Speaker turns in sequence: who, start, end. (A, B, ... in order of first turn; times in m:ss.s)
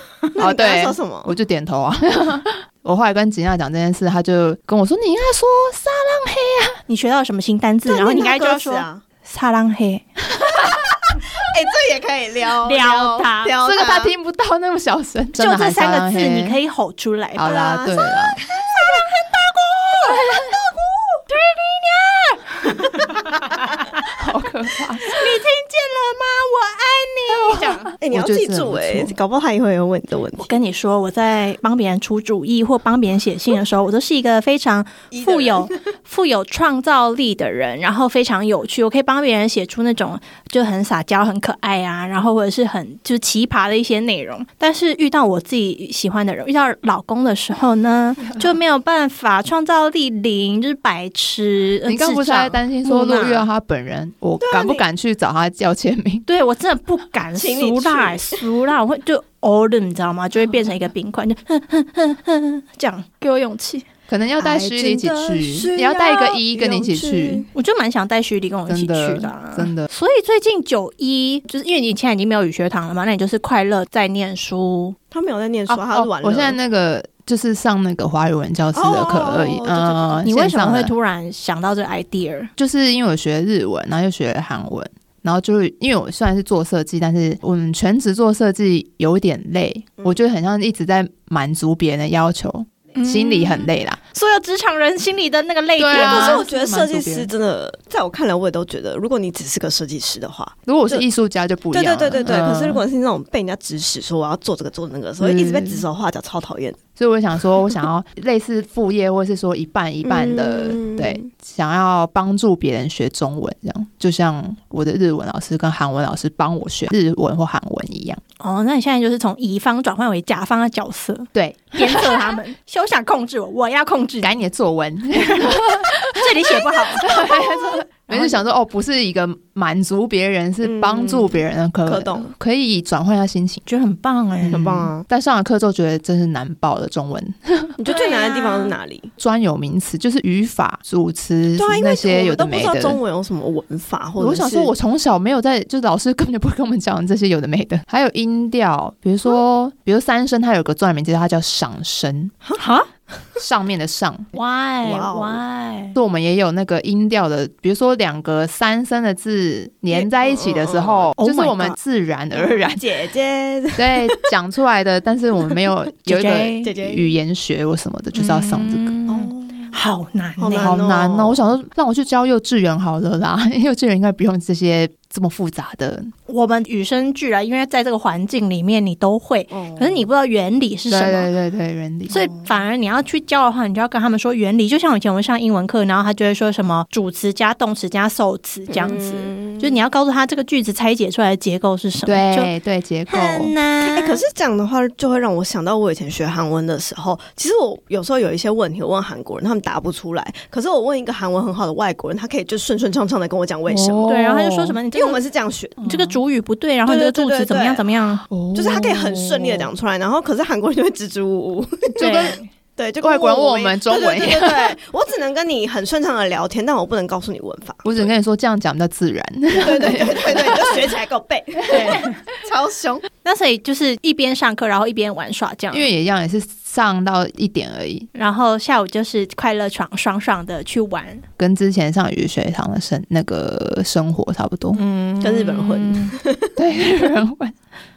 0:00.3-0:01.3 A
0:00.4-0:06.8 B
0:06.9-0:10.1 C
0:07.9-0:09.0 A
0:11.4-0:14.1 A
0:12.6-0:13.5 C
0:13.6-0:16.6 B
0:15.4-0:17.6 C
0:17.4-0:18.4 B
0:17.4-0:19.1 A
0:18.8-0:20.2 C
0:20.6-0:21.2 A
0:21.3-0:23.2 C
0:24.1-0:25.1 B
0:25.0-0:27.9 C
0:27.3-0:29.2 B
0:28.0-0:30.5 A
0:30.4-0:53.5 C
0:35.1-0:35.7 A
0:51.9-0:56.3 B
0:54.4-0:54.8 A
0:56.3-1:03.9 C
0:57.4-0:58.4 A
1:04.1-1:07.5 B
1:04.4-1:07.5 A
1:07.5-1:15.0 C
1:08.7-1:09.9 B
1:15.1-1:16.6 A
1:15.7-1:20.9 B
1:18.7-1:20.3 A
1:20.2-1:22.5 C
1:22.6-1:34.0 B
1:33.0-1:36.5 C
1:35.8-1:37.3 B
1:35.9-1:41.0 A
1:40.7-1:42.8 B
1:41.7-1:46.8 A
1:45.2-1:45.8 B
1:47.0-1:58.2 B
1:50.0-1:51.3 A
1:58.4-2:04.4 C
2:01.3-2:02.3 B
2:04.2-2:13.6 B
2:05.2-2:08.4 C
2:10.6-2:12.3 A
2:13.7-2:14.7 C
2:14.4-2:17.8 B
2:14.5-2:15.1 A
2:17.8-2:19.1 A
2:17.9-2:18.7 C
2:19.2-2:23.0 B
2:21.6-2:24.7 A
2:24.2-2:32.3 B
2:32.4-2:33.2 A
2:32.6-2:32.9 C
2:33.4-2:34.3 B
2:34.3-2:36.0 C
2:34.8-2:35.4 A
2:36.0-2:42.8 B
2:39.9-2:41.1 A
2:41.2-2:41.8 C
2:42.3-2:44.2 A
2:43.8-2:49.0 B
2:46.1-2:46.7 C
2:46.6-2:47.1 A
2:48.2-2:50.8 C
2:49.1-2:49.3 A
2:50.4-2:51.5 A
2:50.5-2:56.1 B
2:56.3-3:01.3 C
2:59.5-3:00.1 A
3:00.9-3:02.3 B
3:02.1-3:12.5 C
3:08.7-3:09.8 A
3:12.1-3:13.5 B
3:13.1-3:14.2 C
3:13.8-3:24.1 A
3:23.7-3:24.8 B
3:24.1-3:25.2 C
3:24.9-3:25.8 A
3:25.8-3:26.2 B
3:25.8-3:28.3 C
3:26.9-3:27.9 A
3:28.3-3:29.7 B
3:28.5-3:38.1 A
3:32.0-3:32.4 B
3:32.0-3:32.4 C
3:33.0-3:34.8 B
3:37.8-3:40.9 B
3:39.5-3:43.1 A
3:41.7-3:42.2 C
3:43.2-3:45.9 C
3:45.7-3:48.1 B
3:48.2-3:51.2 C
3:51.4-3:54.8 B
3:54.8-3:56.2 C
3:55.2-3:56.6 A
3:56.6-3:57.6 B